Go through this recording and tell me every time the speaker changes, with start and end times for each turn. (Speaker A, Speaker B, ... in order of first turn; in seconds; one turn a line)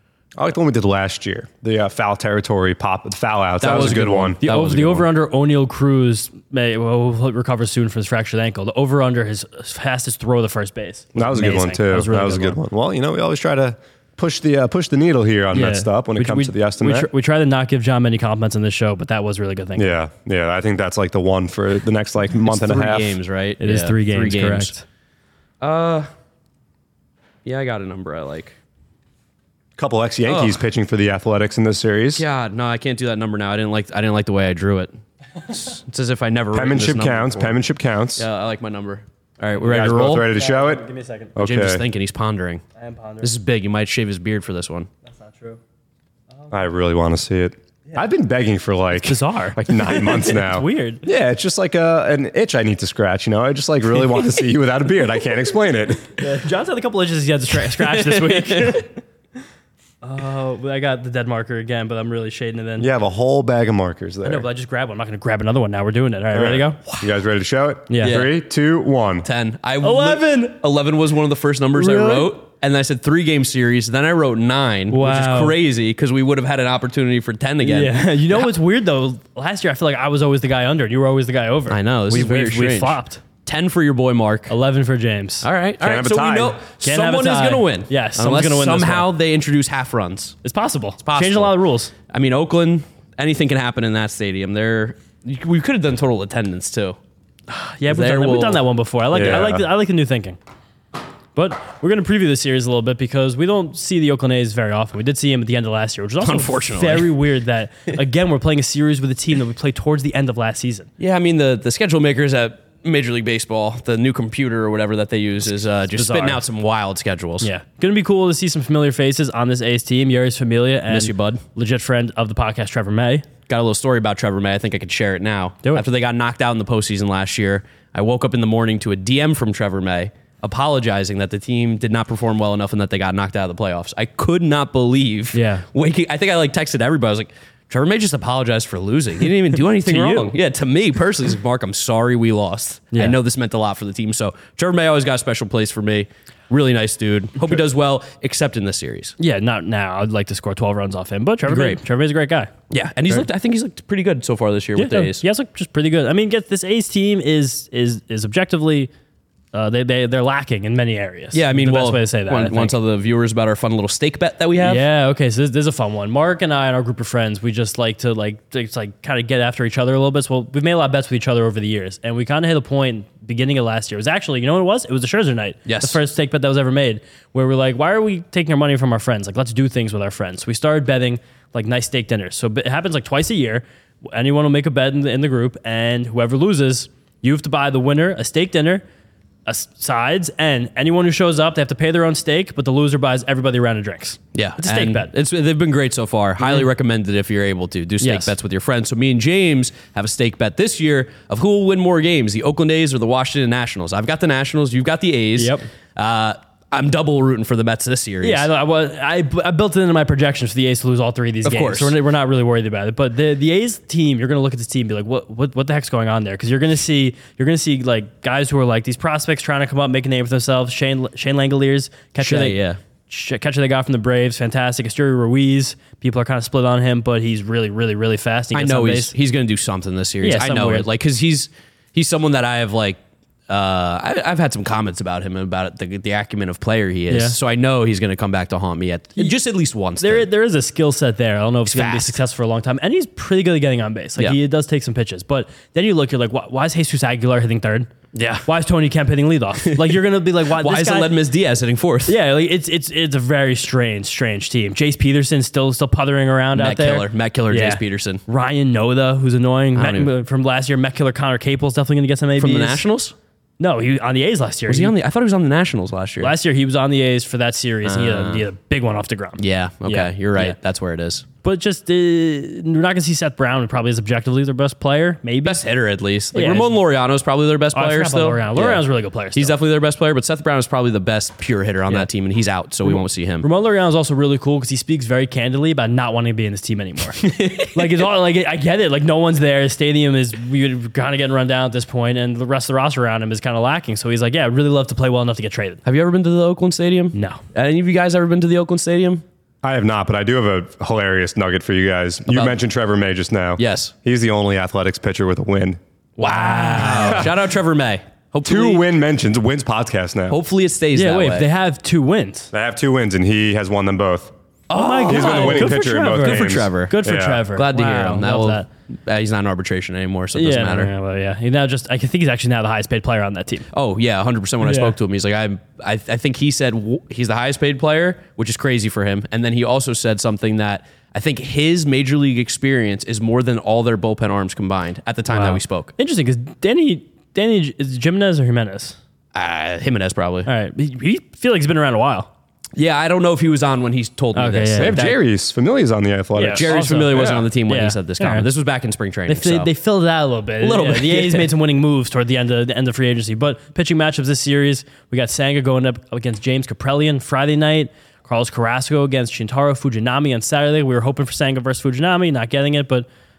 Speaker A: 0.4-4.4
Speaker B: 3.6-5.0
Speaker C: 3.7-12.6
Speaker A: 11.2-17.1
Speaker C: 15.5-19.9
Speaker A: 19.8-23.2
Speaker B: 22.4-24.7
Speaker C: 23.6-24.8
Speaker B: 25.6-26.1
Speaker B: 27.4-28.6
Speaker A: 29.8-32.2
Speaker B: 30.2-30.6
Speaker B: 32.1-34.9
Speaker B: 35.5-37.6
Speaker A: 36.5-38.2
Speaker B: 38.2-40.3
Speaker A: 39.6-41.8
Speaker C: 40.1-41.3
Speaker B: 41.4-42.6
Speaker C: 42.8-43.3
Speaker B: 43.2-44.9
Speaker C: 45.1-45.6
Speaker A: 46.5-56.2
Speaker C: 49.0-51.0
Speaker C: 56.2-58.9
Speaker B: 57.8-58.8
Speaker C: 60.0-62.9
Speaker A: 62.8-64.5
Speaker C: 64.2-66.8
Speaker A: 66.3-69.2
Speaker C: 67.9-68.2
Speaker B: 68.0-68.3
Speaker B: 69.2-78.5
Speaker C: 69.8-70.6
Speaker C: 71.7-72.3
Speaker C: 74.9-75.6
Speaker C: 77.6-83.2
Speaker B: 81.7-84.5
Speaker C: 84.5-85.5
Speaker B: 85.4-90.3
Speaker A: 85.8-86.6
Speaker C: 86.8-89.1
Speaker C: 90.4-91.9
Speaker B: 91.0-91.5
Speaker B: 92.1-97.0
Speaker C: 97.5-100.4
Speaker B: 97.9-98.6
Speaker A: 99.1-99.6
Speaker C: 101.3-110.9
Speaker B: 106.2-107.1
Speaker B: 111.0-117.5
Speaker C: 116.0-116.4
Speaker C: 117.4-123.3
Speaker B: 120.9-121.4
Speaker B: 123.5-149.1
Speaker C: 135.3-135.6
Speaker C: 139.6-140.3
Speaker C: 149.2-152.5
Speaker B: 151.4-151.8
Speaker B: 152.7-155.2
Speaker C: 154.8-158.9
Speaker C: 159.5-162.8
Speaker B: 161.3-164.8
Speaker C: 164.6-188.8
Speaker B: 175.7-176.0
Speaker C: 189.4-195.1
Speaker B: 194.3-208.5
Speaker C: 198.0-198.3
Speaker C: 205.4-205.6
Speaker C: 208.2-229.1
Speaker B: 211.4-211.9
Speaker B: 222.2-222.8
Speaker B: 228.5-240.3
Speaker C: 230.2-230.9
Speaker C: 237.1-237.3
Speaker C: 240.0-247.9
Speaker B: 241.7-242.2
Speaker B: 248.1-248.5
Speaker C: 248.4-251.1
Speaker B: 249.6-250.0
Speaker B: 250.5-252.1
Speaker C: 252.1-262.8
Speaker B: 256.5-258.2
Speaker B: 259.8-260.1
Speaker B: 262.4-263.1
Speaker C: 263.6-264.9
Speaker B: 264.7-266.3
Speaker C: 266.2-270.6
Speaker B: 267.8-268.4
Speaker B: 269.4-271.2
Speaker C: 271.4-275.6
Speaker B: 275.4-283.4
Speaker C: 276.3-276.8
Speaker C: 277.7-279.6
Speaker C: 282.8-295.8
Speaker B: 287.2-288.0
Speaker B: 295.8-299.2
Speaker C: 297.1-297.4
Speaker A: 299.6-305.8
Speaker B: 302.3-302.6
Speaker B: 303.6-303.9
Speaker B: 306.2-308.8
Speaker C: 306.2-307.3
Speaker A: 306.9-307.3
Speaker A: 308.4-310.4
Speaker B: 310.3-311.5
Speaker C: 310.9-312.5
Speaker A: 312.5-314.3
Speaker B: 314.7-317.0
Speaker C: 314.7-318.7
Speaker A: 315.1-317.4
Speaker B: 317.5-320.9
Speaker C: 320.3-323.7
Speaker B: 323.7-335.9
Speaker C: 324.6-324.9
Speaker C: 335.3-339.0
Speaker B: 339.3-340.5
Speaker C: 340.4-342.3
Speaker B: 342.8-345.1
Speaker C: 344.3-345.1
Speaker A: 344.8-347.4
Speaker C: 346.4-348.5
Speaker B: 346.6-349.7
Speaker C: 349.3-363.1
Speaker B: 350.6-351.5